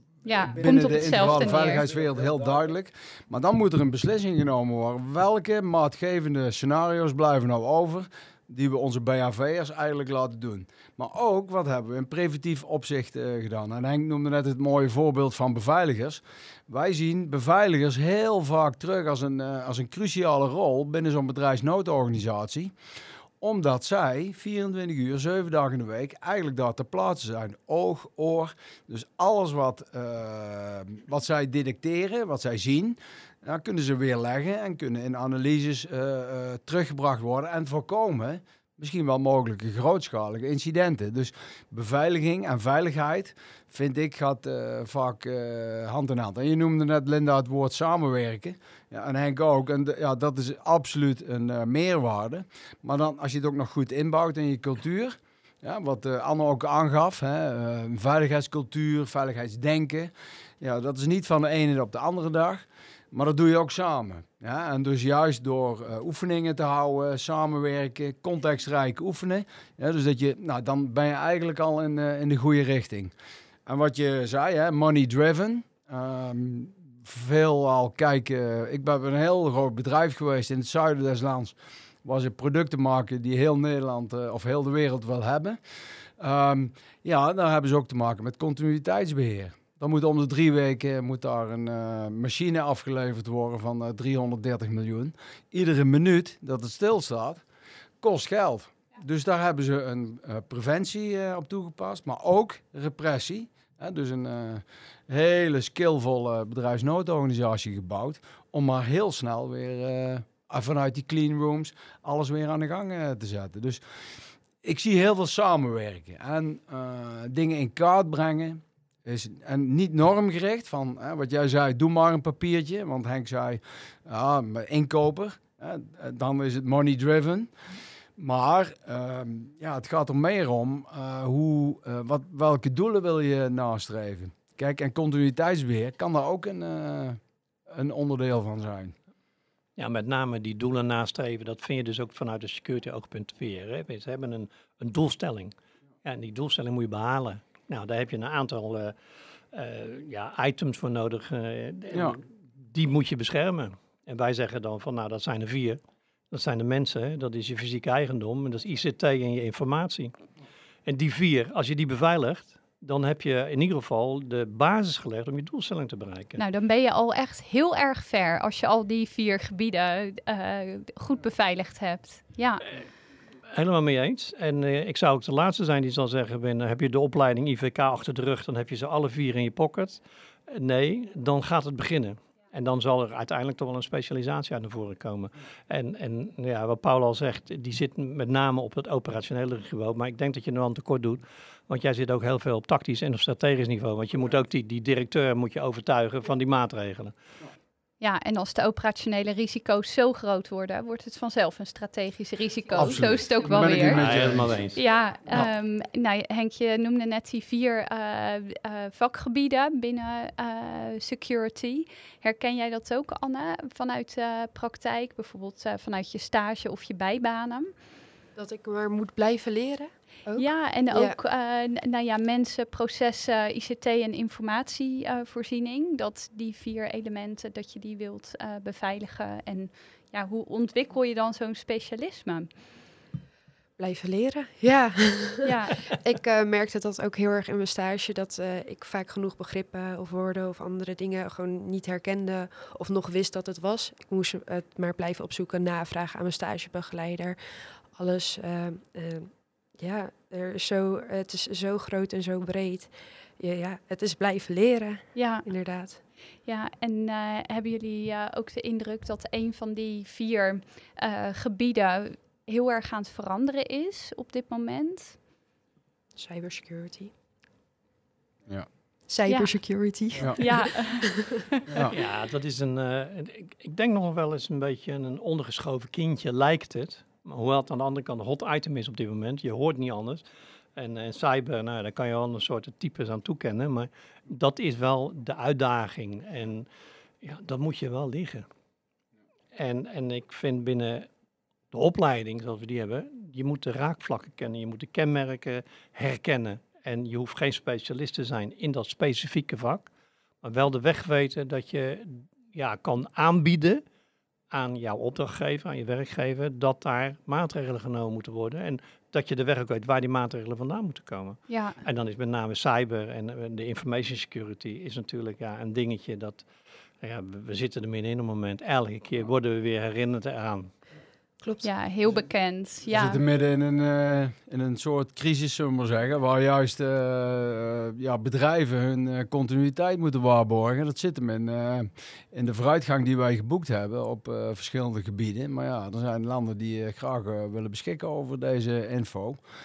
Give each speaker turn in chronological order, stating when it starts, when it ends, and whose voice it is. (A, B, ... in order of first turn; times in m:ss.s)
0:00.2-0:01.9 A
0:00.4-0:22.7 B
0:23.4-1:00.1 B
1:00.6-1:13.1 B
1:13.7-1:25.6 B
1:26.2-1:37.4 B
1:38.0-1:53.8 B
1:54.6-2:07.5 B
2:08.2-2:19.0 B
2:19.8-2:28.9 C
2:29.5-2:35.8 C
2:31.9-2:32.2 B
2:36.3-2:40.1 C
2:40.9-2:46.4 C
2:46.4-2:52.7 A
2:53.5-3:17.1 C
3:18.0-3:24.0 A
3:22.7-3:24.7 B
3:23.6-3:25.5 C
3:24.7-3:37.7 A
3:38.4-3:41.2 D
3:40.4-3:52.5 A
3:53.8-4:16.0 D
3:55.4-3:55.8 A
4:15.2-4:15.5 A
4:16.5-4:25.2 A
4:26.2-4:27.1 D
4:29.1-4:31.3 D
4:29.3-4:29.8 A
4:30.4-4:31.6 A
4:31.7-4:32.0 B
4:31.8-4:40.2 C
4:40.8-4:46.7 C
4:47.2-4:48.5 C
4:49.6-4:51.1 C
4:51.7-4:59.9 C
5:00.4-5:03.8 C
5:04.5-5:16.5 C
5:11.5-5:11.8 A
5:17.0-5:20.7 C
5:21.4-5:21.7 D
5:21.6-5:23.2 A
5:22.9-5:39.4 B